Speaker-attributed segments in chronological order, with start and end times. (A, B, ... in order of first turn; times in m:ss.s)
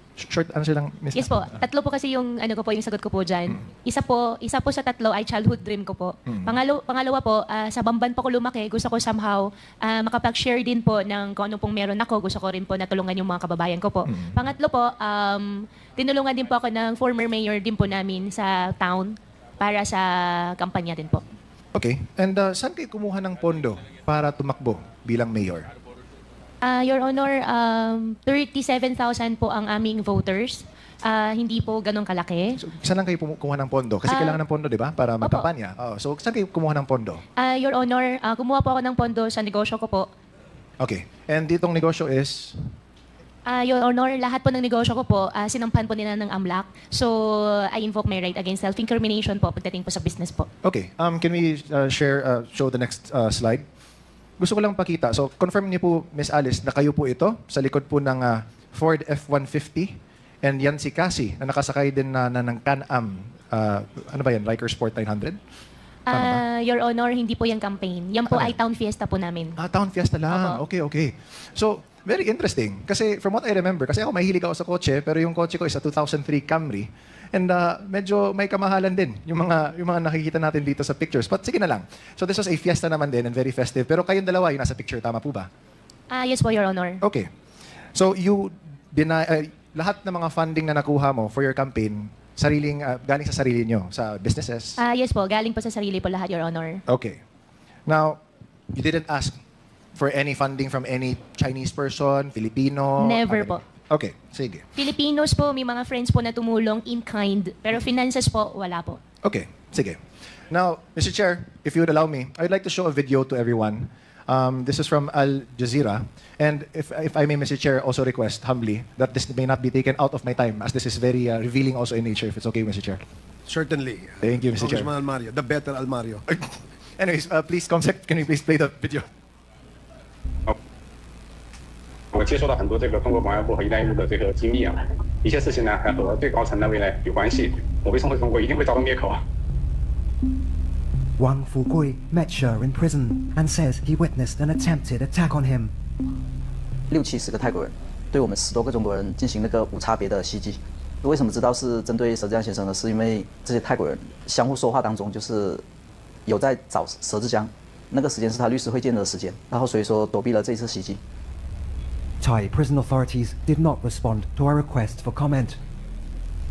0:00.2-0:01.5 A
0:01.1-0:21.2 B
0:21.7-0:25.7 A
0:26.6-0:32.6 B
0:32.6-0:37.2 A
0:34.1-0:34.4 B
0:35.2-0:35.5 B
0:37.4-0:40.1 B
0:40.8-0:42.6 A
0:43.4-0:50.5 B
0:50.6-0:53.6 A
0:54.4-1:05.4 A
1:06.1-1:09.6 B
1:06.1-1:06.4 A
1:08.3-1:08.6 A
1:09.6-1:25.5 A
1:10.3-1:10.6 B
1:26.1-1:27.0 B
1:27.0-1:27.3 A
1:27.9-1:34.8 A
1:34.8-1:36.8 B
1:36.9-1:37.2 A
1:37.9-1:38.2 A
1:38.7-1:39.4 A
1:40.0-1:44.6 A
1:43.0-1:43.6 B
1:44.8-1:49.0 B
1:49.2-1:50.0 A
1:50.5-2:03.0 A
2:03.5-2:06.2 C
2:04.2-2:04.9 A
2:06.3-2:09.1 A
2:12.1-2:19.2 D
2:21.2-2:25.7 E
2:26.9-2:35.6 F
2:36.2-2:41.0 F
2:42.2-2:45.6 E